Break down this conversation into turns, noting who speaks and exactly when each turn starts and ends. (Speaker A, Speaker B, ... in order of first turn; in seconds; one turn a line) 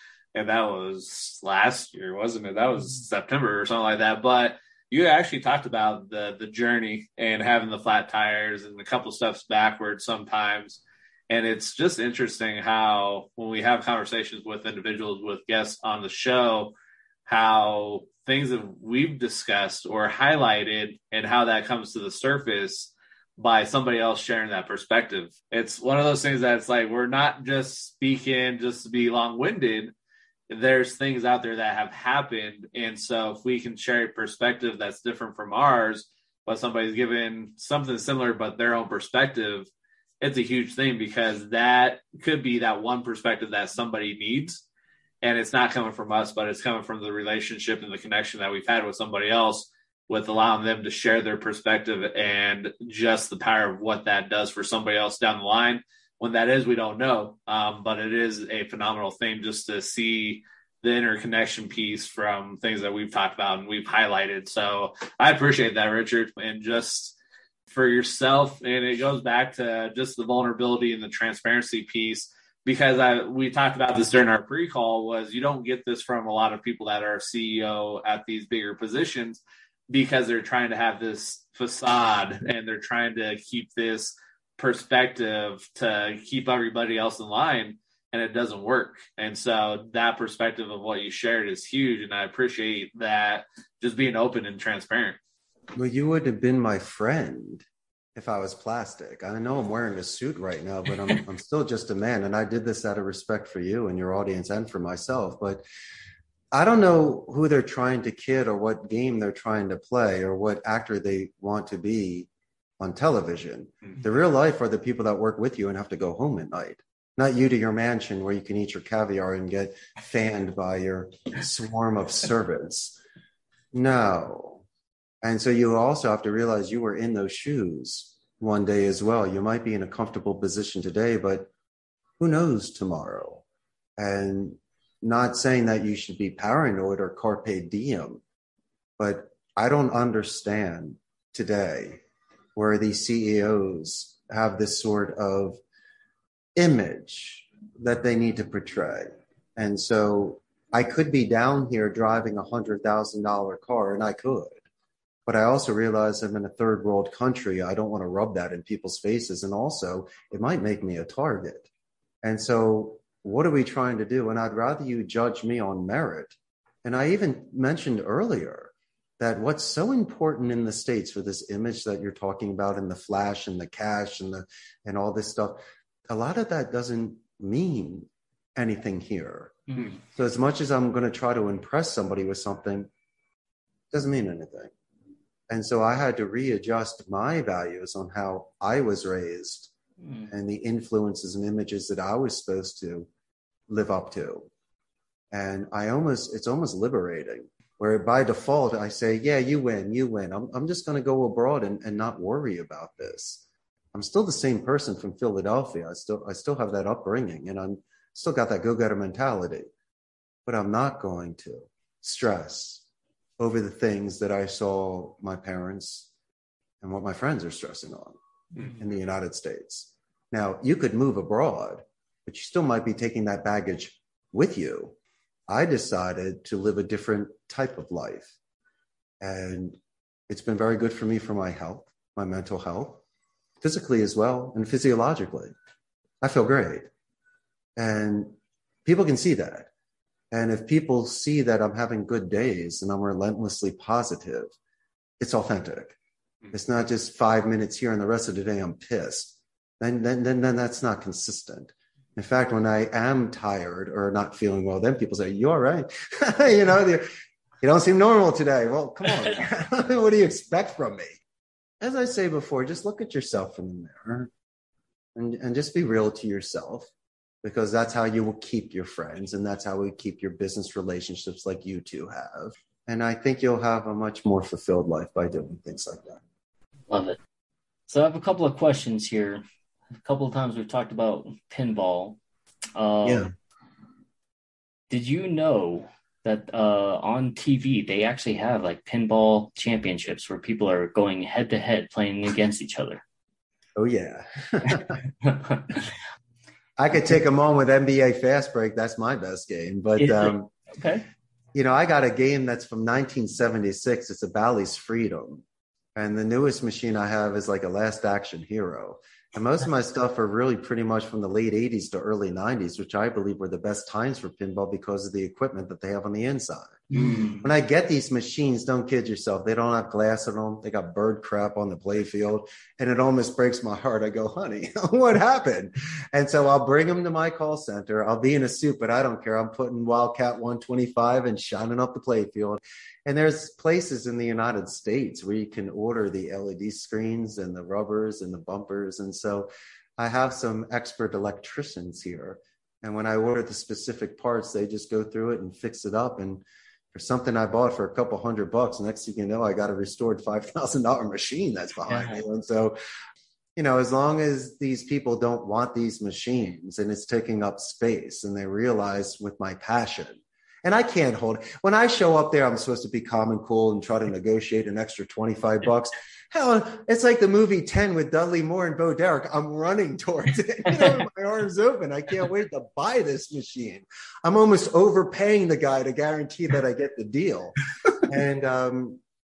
Speaker A: 0.3-16.7
Speaker A: 17.3-29.9
Speaker A: 30.5-39.7
Speaker A: 40.2-44.6
Speaker A: 45.2-67.2
Speaker A: 67.7-95.2
Speaker B: 95.8-97.7
Speaker B: 98.2-105.6
Speaker B: 106.5-112.3
Speaker B: 112.8-123.0
Speaker B: 123.7-124.6
Speaker B: 125.2-131.5
Speaker B: 132.2-133.4
Speaker B: 134.0-138.2
Speaker B: 139.0-142.0
Speaker B: 142.6-145.6
Speaker B: 146.6-154.6
Speaker B: 155.3-161.7
Speaker B: 162.2-182.9
Speaker C: 179.7-180.0
Speaker B: 183.9-184.7
Speaker B: 185.5-189.7
Speaker C: 190.0-190.3
Speaker B: 190.3-193.1
Speaker B: 193.7-194.5
Speaker B: 195.3-203.4
Speaker B: 203.9-209.7
Speaker B: 210.5-212.8
Speaker B: 213.4-216.1
Speaker B: 216.8-218.2
Speaker B: 218.7-225.0
Speaker B: 225.5-228.3
Speaker B: 229.2-229.8
Speaker B: 230.3-233.0
Speaker B: 233.6-235.5
Speaker B: 236.2-236.9
Speaker B: 237.8-238.3
Speaker B: 238.8-239.7
Speaker B: 240.3-244.5
Speaker B: 245.2-245.9
Speaker B: 246.5-261.2
Speaker B: 261.8-264.3
Speaker B: 265.1-266.9
Speaker B: 267.4-276.2
Speaker C: 276.9-277.2
Speaker C: 277.9-279.4
Speaker C: 279.9-282.2
Speaker C: 282.8-283.3
Speaker B: 283.0-283.3
Speaker C: 284.9-293.0
Speaker B: 293.8-295.0
Speaker C: 295.2-295.8
Speaker B: 296.8-300.5
Speaker C: 300.0-301.0
Speaker B: 301.6-305.4
Speaker B: 306.0-316.9
Speaker C: 316.9-317.4
Speaker B: 317.4-346.4
Speaker B: 346.9-352.8
Speaker C: 351.9-352.2
Speaker B: 353.6-379.0